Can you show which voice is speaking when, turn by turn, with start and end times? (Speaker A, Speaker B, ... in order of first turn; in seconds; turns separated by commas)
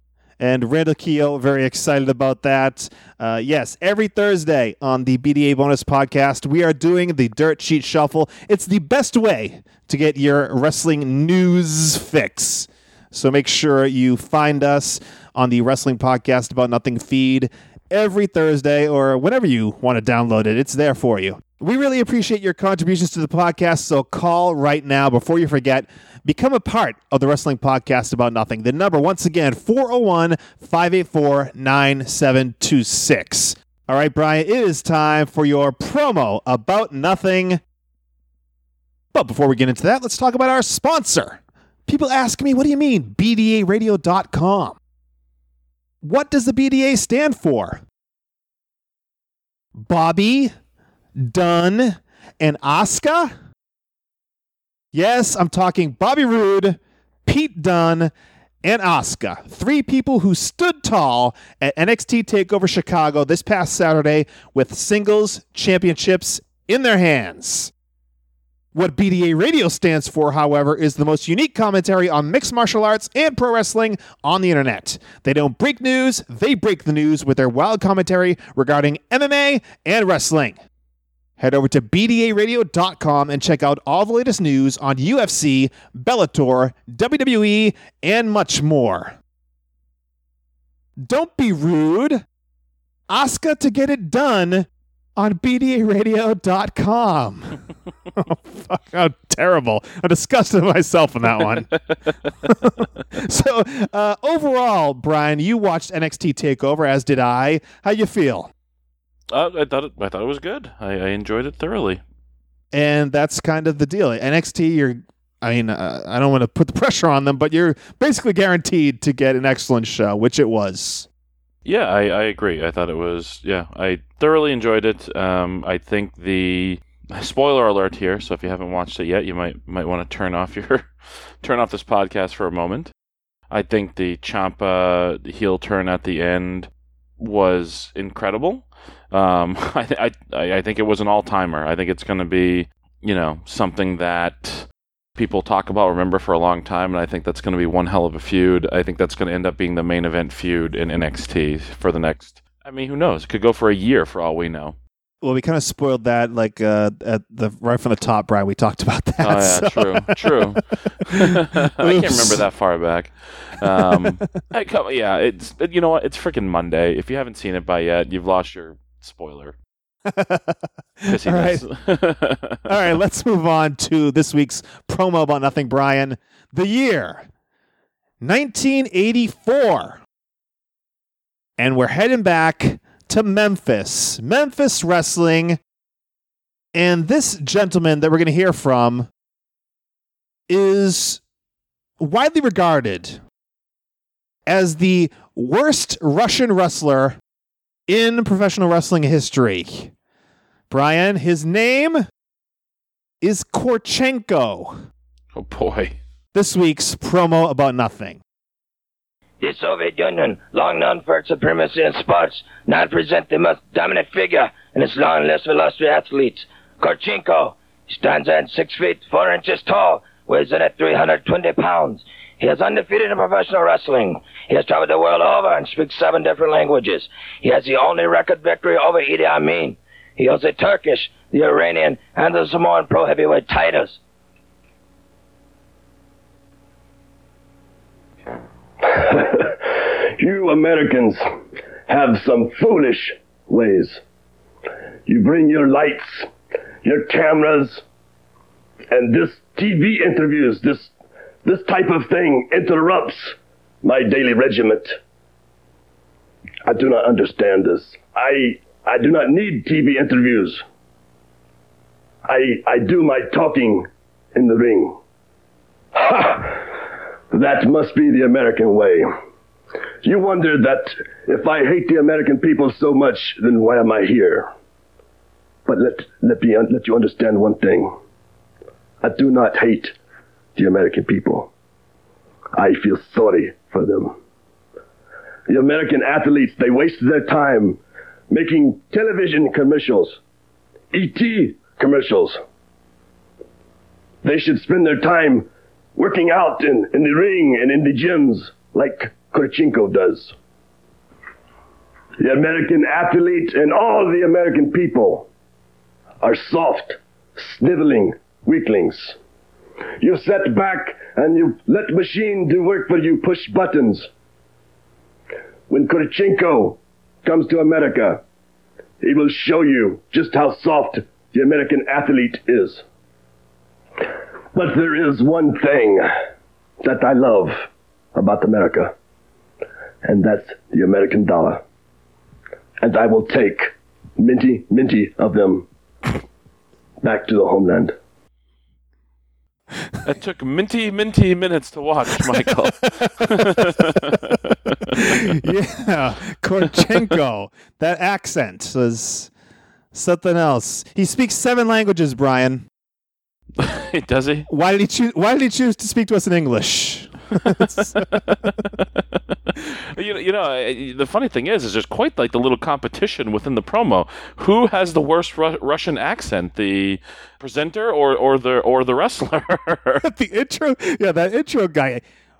Speaker A: 0.4-37.6, Speaker A: 39.1-44.8, Speaker A: 46.0-47.8, Speaker A: 49.8-50.5, Speaker A: 51.2-53.4, Speaker A: 54.9-58.1, Speaker A: 58.6-67.7, Speaker A: 68.7-80.6, Speaker A: 81.4-89.2, Speaker A: 91.0-92.2, Speaker A: 93.1-97.6, Speaker A: 98.2-101.7, Speaker A: 102.5-108.5, Speaker B: 109.3-112.0, Speaker A: 112.7-121.1, Speaker B: 121.7-132.9, Speaker B: 133.5-154.8, Speaker A: 155.2-162.4, Speaker B: 159.2-169.6, Speaker A: 163.7-164.2, Speaker A: 170.1-171.7, Speaker B: 171.1-172.7, Speaker A: 172.7-177.3, Speaker A: 178.2-180.0, Speaker A: 181.6-185.6, Speaker A: 186.7-189.1, Speaker A: 190.5-191.2, Speaker A: 192.0-193.2, Speaker A: 194.5-197.2, Speaker A: 197.9-199.9, Speaker A: 200.7-202.1, Speaker A: 203.2-204.8, Speaker B: 205.3-206.0, Speaker A: 206.3-208.2, Speaker C: 209.4-234.0, Speaker D: 238.8-241.2, Speaker D: 241.9-244.0, Speaker D: 245.1-246.3, Speaker D: 246.8-247.8, Speaker D: 248.9-250.9, Speaker D: 251.4-255.0, Speaker D: 256.6-260.6, Speaker D: 262.2-265.0, Speaker D: 265.9-266.7, Speaker D: 267.3-269.1, Speaker D: 270.0-274.5, Speaker D: 275.7-278.0, Speaker D: 279.0-280.0, Speaker D: 280.6-281.5, Speaker D: 282.5-284.2, Speaker D: 285.5-290.2, Speaker D: 290.9-292.4, Speaker D: 294.2-300.4, Speaker D: 302.2-305.3, Speaker D: 306.2-309.2, Speaker D: 310.0-314.1, Speaker D: 315.7-318.2, Speaker D: 319.0-322.8, Speaker D: 324.5-326.1, Speaker D: 326.8-328.9, Speaker D: 330.0-331.6, Speaker D: 332.8-335.7, Speaker D: 337.0-337.9, Speaker B: 340.0-345.3, Speaker A: 342.3-344.2, Speaker A: 344.9-349.3, Speaker A: 349.9-352.7, Speaker B: 353.6-354.5, Speaker A: 354.5-358.1, Speaker B: 357.8-359.0, Speaker B: 359.6-370.1, Speaker A: 370.0-372.0